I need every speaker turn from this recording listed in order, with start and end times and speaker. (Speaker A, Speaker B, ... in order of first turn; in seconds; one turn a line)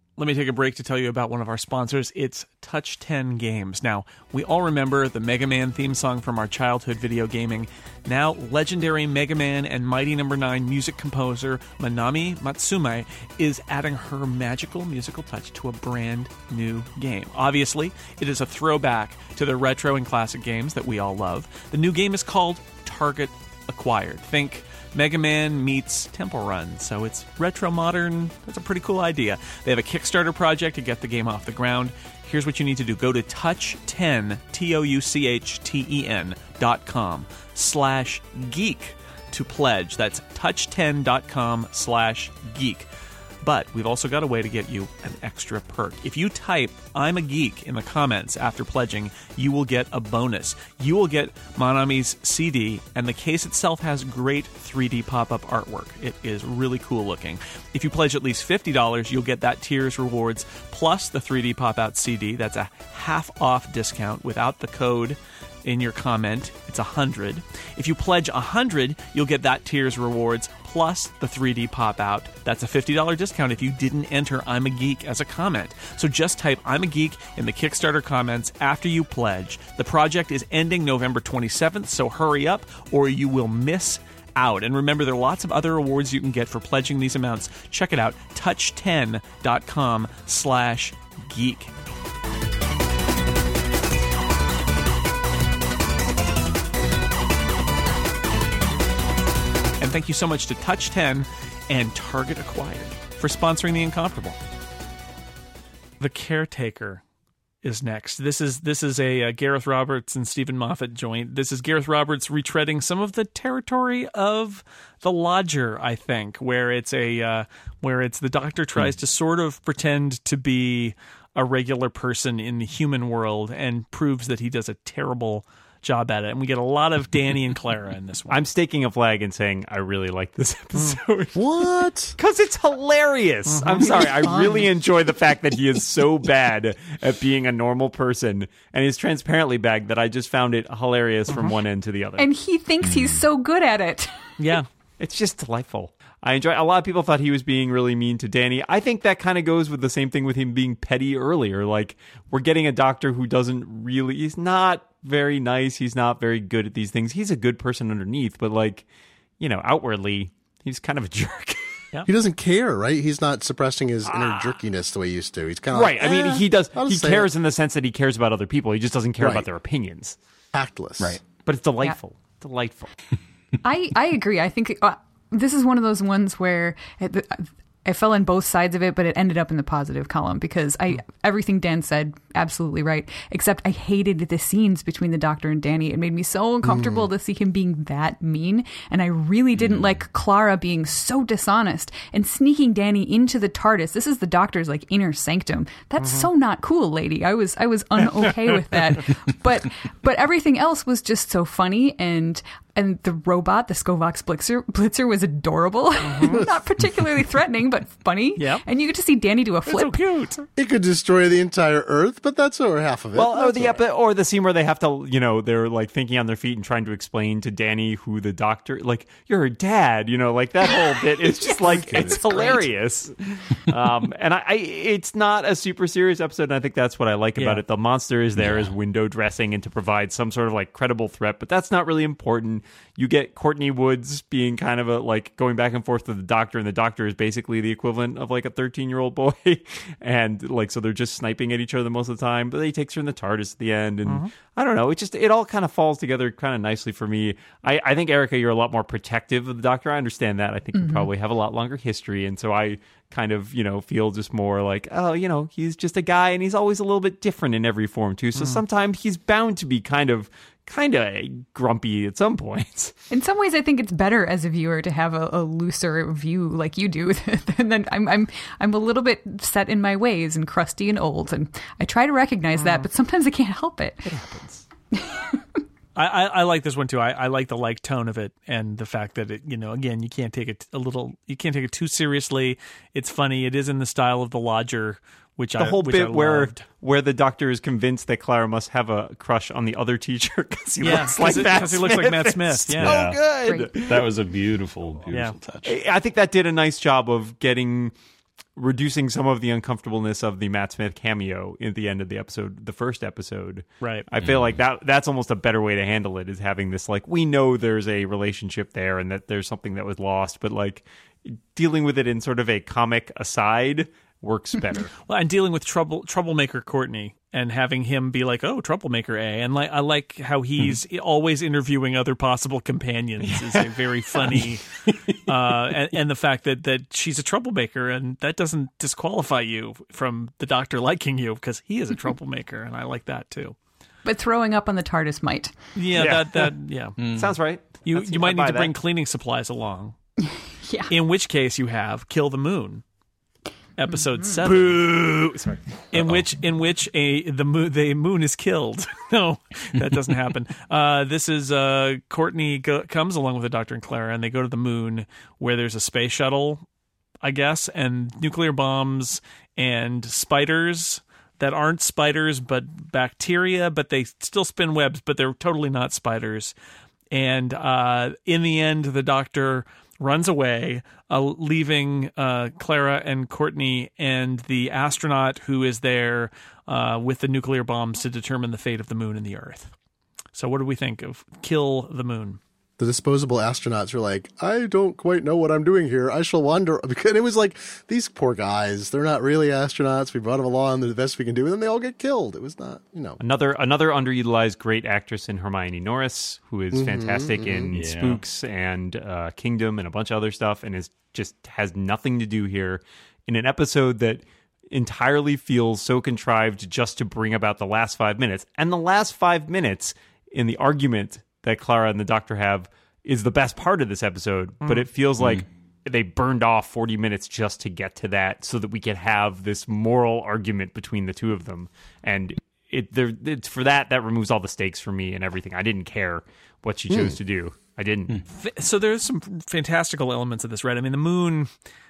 Speaker A: 0.2-42.9
Speaker A: 43.4-91.7
Speaker A: 99.8-104.4
Speaker A: 106.0-107.0
Speaker A: 107.6-128.4
Speaker B: 128.3-142.3
Speaker C: 131.3-132.2
Speaker A: 133.5-134.4
Speaker D: 133.7-134.8
Speaker D: 142.2-144.4
Speaker E: 142.8-143.2
Speaker A: 144.4-144.7
Speaker B: 145.0-158.8
Speaker B: 159.4-161.6
Speaker C: 162.1-167.3
Speaker B: 165.7-170.2
Speaker C: 169.2-169.4
Speaker C: 170.5-171.2
Speaker E: 171.0-171.2
Speaker B: 171.4-172.9
Speaker D: 173.6-210.0
Speaker C: 186.6-187.1
Speaker E: 189.6-189.9
Speaker A: 206.0-206.5
Speaker A: 208.4-208.6
Speaker A: 209.7-210.4
Speaker C: 210.6-213.8
Speaker B: 213.1-262.9
Speaker D: 220.6-222.7
Speaker A: 227.3-227.6
Speaker E: 228.3-228.7
Speaker D: 250.7-251.1
Speaker D: 263.1-274.1
Speaker B: 274.0-274.6
Speaker D: 274.9-275.6
Speaker A: 275.9-286.6
Speaker B: 285.6-294.1
Speaker A: 290.8-293.0
Speaker E: 292.8-295.7
Speaker B: 295.6-297.9
Speaker B: 298.6-314.9
Speaker E: 304.2-304.6
Speaker A: 315.1-333.6
Speaker D: 334.0-335.6
Speaker A: 335.7-337.0
Speaker B: 335.9-338.7
Speaker E: 337.0-337.3
Speaker A: 337.8-339.9
Speaker D: 340.3-340.9
Speaker A: 340.9-342.8
Speaker A: 343.8-344.8
Speaker B: 344.4-345.9
Speaker A: 345.9-356.6
Speaker A: 357.2-366.5
Speaker A: 367.1-379.7
Speaker A: 380.3-382.4
Speaker C: 382.8-393.2
Speaker B: 393.2-428.2
Speaker C: 396.7-397.7
Speaker E: 397.7-398.2
Speaker E: 415.2-415.4
Speaker A: 428.3-431.5